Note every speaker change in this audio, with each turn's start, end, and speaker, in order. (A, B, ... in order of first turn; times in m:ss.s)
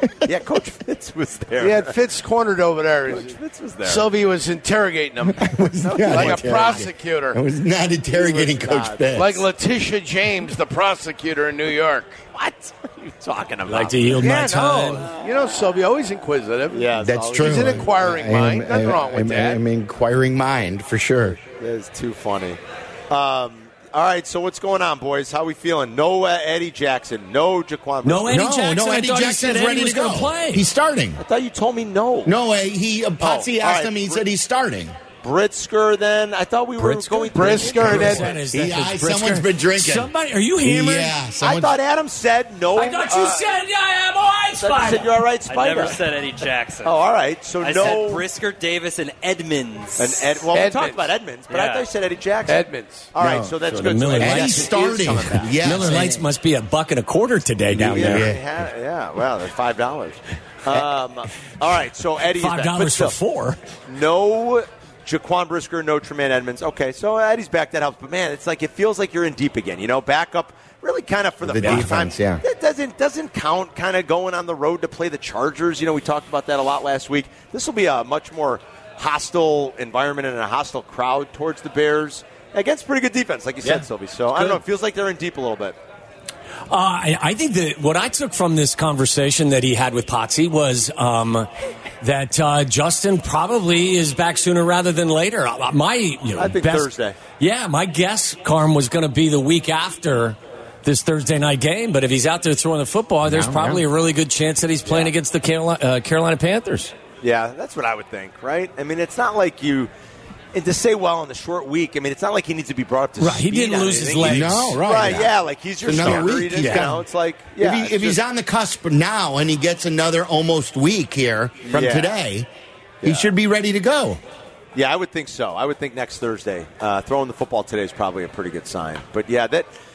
0:00.2-0:02.0 A
0:01.6-0:07.4 B
0:03.1-0:04.1 A
0:05.3-0:09.4 C
0:05.8-0:06.9 A
0:08.2-0:09.3 A
0:09.1-0:12.2 B
0:12.3-0:14.2 A
0:13.7-0:15.1 D
0:14.1-0:19.6 B
0:16.7-0:18.0 A
0:17.0-0:21.4 C
0:21.3-0:22.6 A
0:23.1-0:28.5 A
0:28.0-0:30.6 D
0:28.3-0:31.2 C
0:31.2-0:32.4 A
0:32.2-0:35.0 C
0:33.2-0:34.2 A
0:35.2-0:38.4 A
0:36.8-0:41.2 D
0:37.3-0:38.4 B
0:38.5-0:40.1 C
0:40.6-0:41.8 C
0:41.4-0:43.5 A
0:42.7-0:45.1 D
0:44.6-0:46.0 A
0:45.5-0:47.0 E
0:46.8-0:48.2 A
0:47.6-0:50.5 E
0:50.0-0:55.6 A
0:50.5-0:51.1 B
0:51.5-0:51.9 E
0:52.5-0:53.1 B
0:53.2-0:53.5 C
0:53.6-0:54.7 D
0:54.2-0:56.2 C
0:55.6-0:58.3 D
0:57.7-1:03.2 A
0:57.8-0:58.4 C
1:02.3-1:03.6 D
1:03.9-1:25.8 A
1:11.4-1:12.4 C
1:26.7-1:31.5 D
1:32.0-1:46.9 D
1:36.4-1:37.2 A
1:43.2-1:43.8 C
1:44.8-1:45.1 A
1:47.2-1:49.9 A
1:50.5-1:58.2 A
1:53.2-1:54.8 D
1:54.2-1:57.0 C
1:56.0-1:56.9 D
1:57.6-2:02.5 C
2:01.6-2:02.2 A
2:03.0-2:03.3 A
2:03.0-2:04.2 C
2:04.7-2:09.7 A